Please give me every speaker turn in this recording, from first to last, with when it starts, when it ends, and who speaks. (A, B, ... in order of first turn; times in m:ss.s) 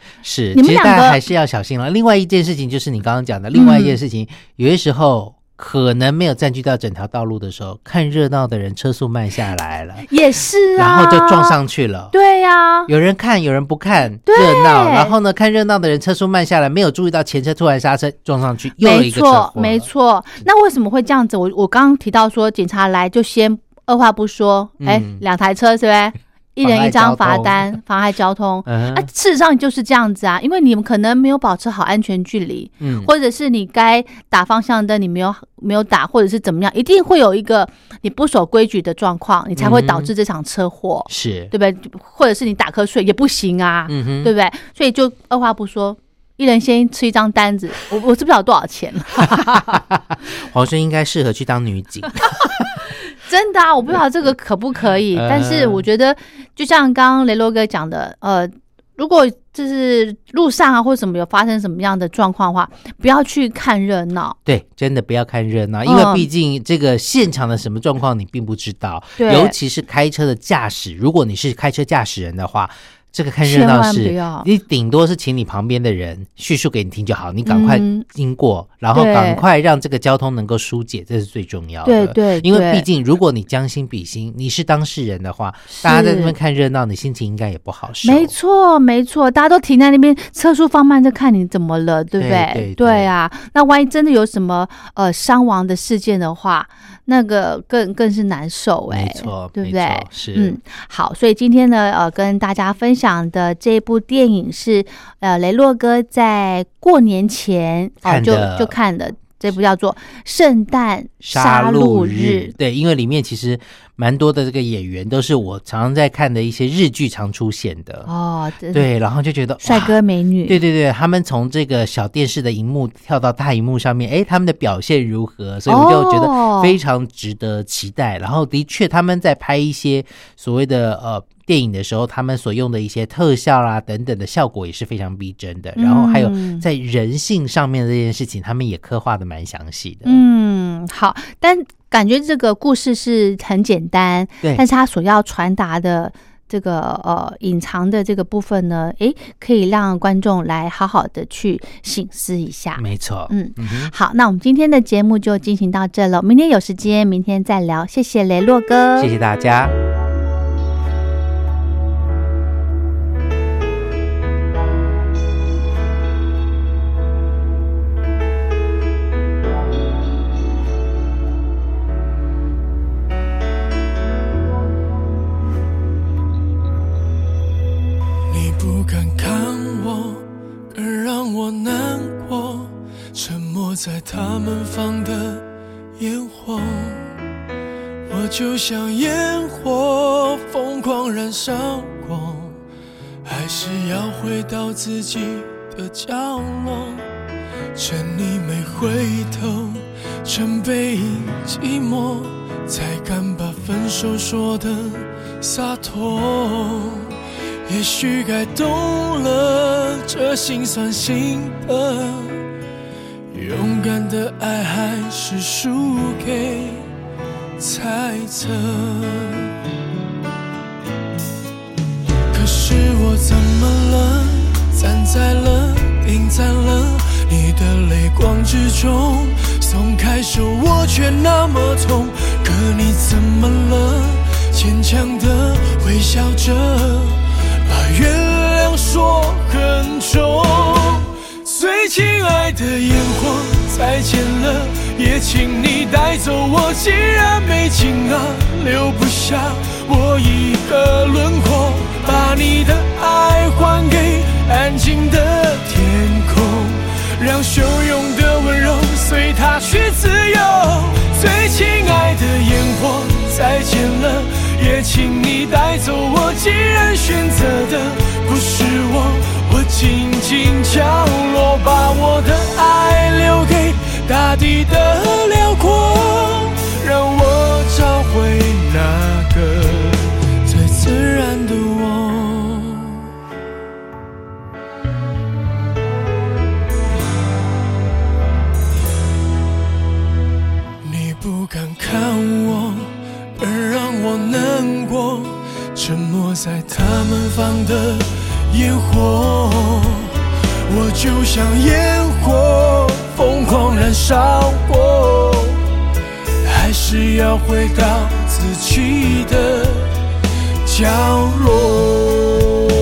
0:00.2-0:10.1 A
0:00.5-0:01.2 B
0:03.5-0:04.0 B
0:10.1-0:11.6 B
0:10.8-0:12.1 A
0:12.1-0:12.9 B
0:12.9-0:19.9 A
0:14.3-0:15.1 B
0:18.8-0:49.8 B
0:24.8-0:25.2 A
0:26.6-0:27.8 A
0:28.7-0:29.1 A
0:32.8-0:33.1 A
0:39.6-0:40.1 A
0:41.1-0:41.5 A
0:43.9-0:44.3 A
0:49.2-0:52.7 A
0:53.2-1:04.4 B
0:55.1-0:55.8 A
1:04.5-1:28.3 A
1:05.8-1:06.3 B
1:09.2-1:09.6 B
1:13.4-1:14.5 B
1:17.5-1:18.0 B
1:18.9-1:19.4 B
1:21.8-1:22.9 B
1:25.7-1:26.4 B
1:28.0-1:52.5 B
1:32.2-1:33.1 A
1:38.9-1:40.6 A
1:48.0-1:48.8 A
1:51.2-1:58.1 A
1:58.1-1:58.9 B
1:58.7-2:20.2 A
1:59.6-2:00.6 B
2:05.7-2:06.8 B
2:15.8-2:16.6 B
2:20.0-2:39.1 B
2:32.8-2:33.9 A
2:39.0-2:39.7 A
2:58.3-3:05.4 C
3:06.0-3:07.1 C
3:08.1-3:12.6 C
3:13.2-3:17.1 C
3:17.8-3:27.2 C
3:27.7-3:32.4 C
3:33.3-3:36.9 C
3:37.6-3:39.5 C
3:42.3-4:43.0 C
4:50.8-5:05.6 C
5:06.4-5:09.9 C
5:10.6-5:12.5 C